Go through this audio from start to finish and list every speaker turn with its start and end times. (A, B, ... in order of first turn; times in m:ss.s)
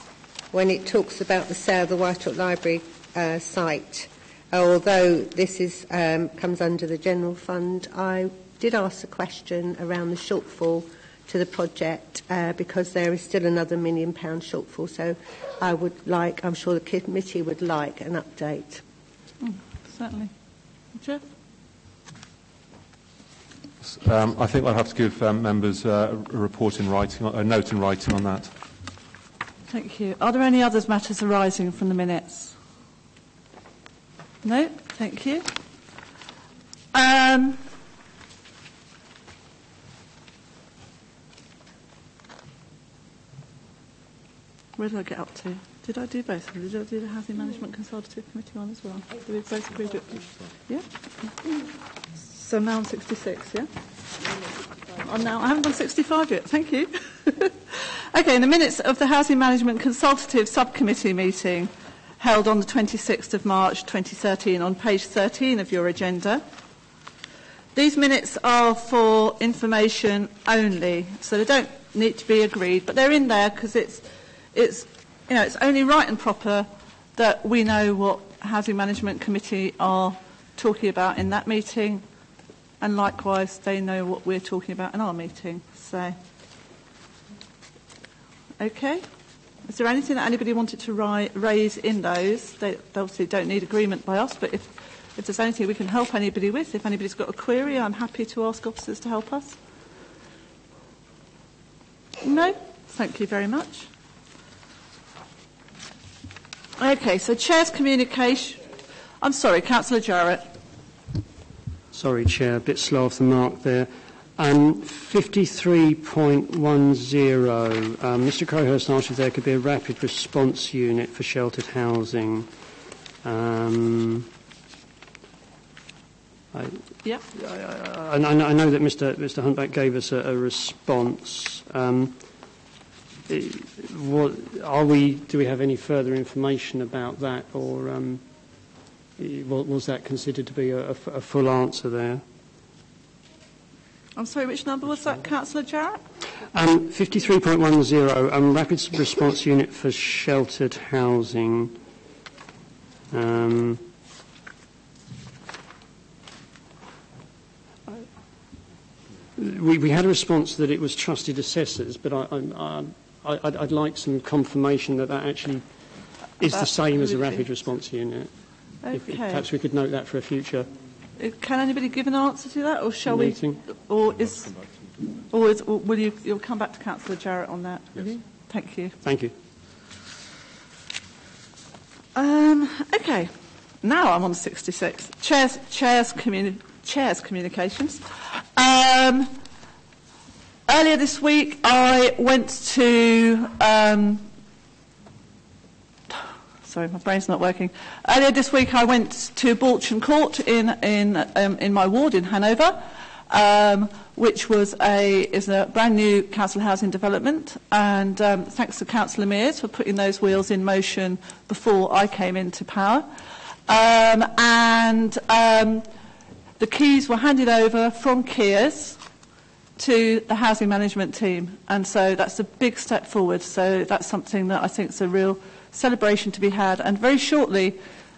0:00.5-0:18.8 A
0:19.4-0:20.3 B
0:20.9-0:21.2 B
0:23.8-0:28.5 C
0:29.7-0:32.6 B
0:34.4-0:35.5 B
0:36.9-0:37.6 B
0:44.8-0:50.9 B
0:52.3-0:53.7 B
0:55.0-1:06.4 B
1:07.7-1:22.0 B
1:22.8-1:26.2 B
1:28.6-1:29.0 B
1:29.6-1:39.6 B
1:42.2-1:43.9 B
1:46.8-1:48.6 B
1:49.2-1:50.4 B
1:51.9-2:02.5 D
2:03.2-2:04.3 D
2:06.5-2:12.2 D
2:13.3-2:18.2 D
2:19.2-2:22.2 D
2:24.2-2:26.0 B
2:26.5-2:31.7 D
2:33.1-2:33.8 D
2:39.4-2:45.9 D
2:46.4-2:50.7 D
2:46.4-2:47.4 B
2:48.8-2:49.4 B
2:51.2-2:54.6 B
2:53.0-2:53.6 D
2:55.3-2:59.0 B
2:59.0-2:59.3 D
3:02.1-3:08.0 B
3:08.6-3:09.3 B
3:10.7-3:14.2 B
3:16.1-3:33.1 B
3:33.7-3:35.9 B
3:36.6-3:39.0 B
3:39.8-3:47.8 B